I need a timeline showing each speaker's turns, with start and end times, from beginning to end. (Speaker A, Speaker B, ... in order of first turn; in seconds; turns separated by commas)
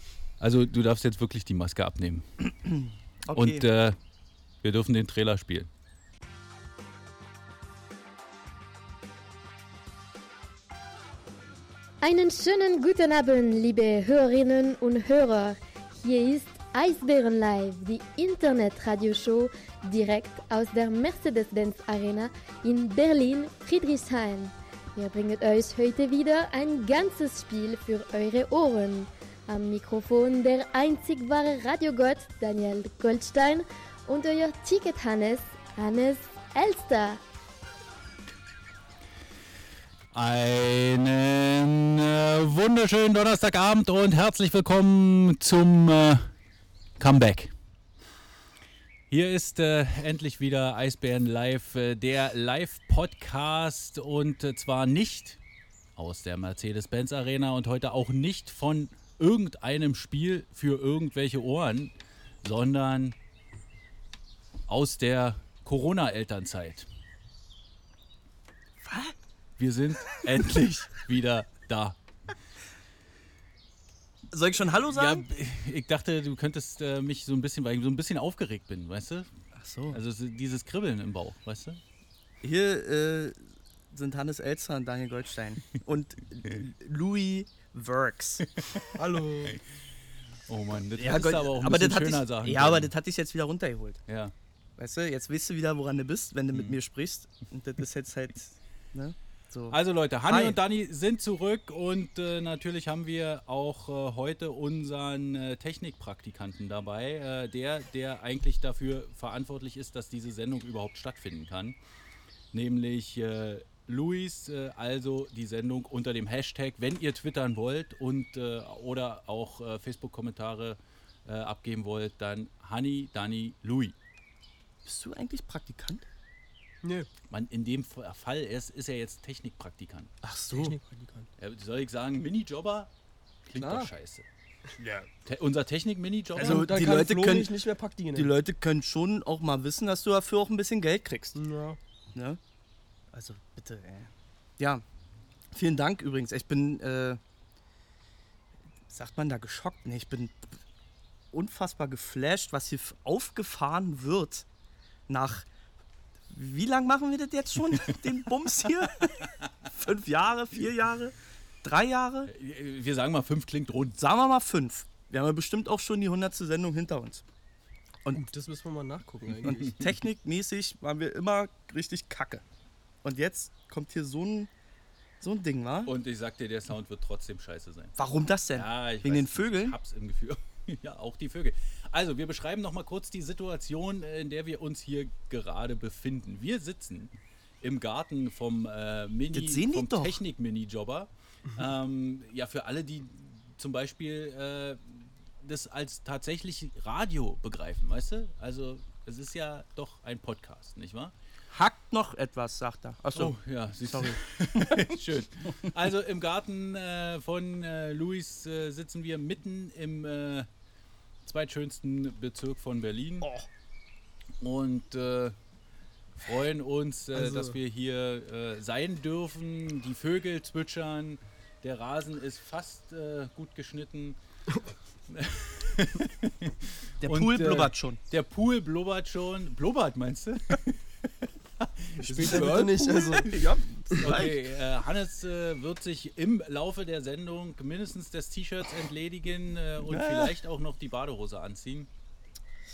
Speaker A: 0.4-2.2, Speaker B: 2.4-3.6, Speaker A: 3.3-4.0, Speaker A: 4.6-5.7, Speaker C: 12.0-37.2, Speaker A: 40.1-46.3, Speaker A: 47.0-47.5, Speaker A: 49.1-55.4, Speaker A: 56.0-63.1, Speaker A: 64.7-66.9, Speaker B: 68.8-69.2, Speaker A: 69.6-72.0, Speaker B: 74.3-75.2, Speaker A: 74.9-79.3, Speaker B: 79.5-80.0, Speaker A: 79.9-81.8, Speaker B: 82.4-83.4, Speaker B: 83.9-88.5, Speaker A: 88.6-88.8, Speaker D: 88.9-89.6, Speaker A: 90.5-92.9, Speaker B: 90.9-94.0, Speaker A: 94.1-94.3, Speaker B: 94.8-100.6, Speaker A: 96.5-96.8, Speaker A: 99.7-111.8, Speaker A: 112.5-123.9, Speaker B: 124.8-126.0, Speaker D: 126.8-127.1, Speaker A: 127.3-130.1, Speaker B: 130.2-130.8, Speaker D: 130.5-131.3, Speaker A: 131.4-132.9, Speaker A: 133.4-134.2, Speaker B: 133.6-133.9, Speaker A: 135.2-136.7, Speaker D: 136.3-138.3, Speaker B: 136.3-141.4, Speaker D: 141.3-141.8, Speaker B: 142.1-142.4, Speaker B: 143.1-144.8, Speaker B: 145.5-147.2, Speaker B: 148.9-150.6, Speaker B: 151.3-154.4, Speaker B: 155.1-155.5, Speaker B: 156.3-162.3, Speaker A: 162.3-164.0, Speaker B: 164.0-167.2, Speaker D: 168.1-169.8, Speaker B: 169.4-172.4, Speaker B: 173.0-174.5, Speaker B: 175.2-175.9, Speaker A: 175.8-177.9, Speaker B: 177.9-179.8, Speaker A: 178.5-201.1, Speaker B: 189.3-190.2, Speaker B: 201.5-204.9, Speaker A: 203.1-210.5, Speaker A: 211.2-213.3, Speaker B: 213.2-213.5, Speaker A: 214.4-215.3, Speaker A: 216.2-224.2, Speaker D: 217.1-217.6, Speaker A: 225.1-230.8, Speaker B: 227.0-228.0, Speaker D: 227.3-227.7, Speaker A: 231.6-232.7, Speaker D: 232.0-233.4, Speaker B: 232.0-234.4, Speaker A: 234.0-241.9, Speaker B: 239.9-240.3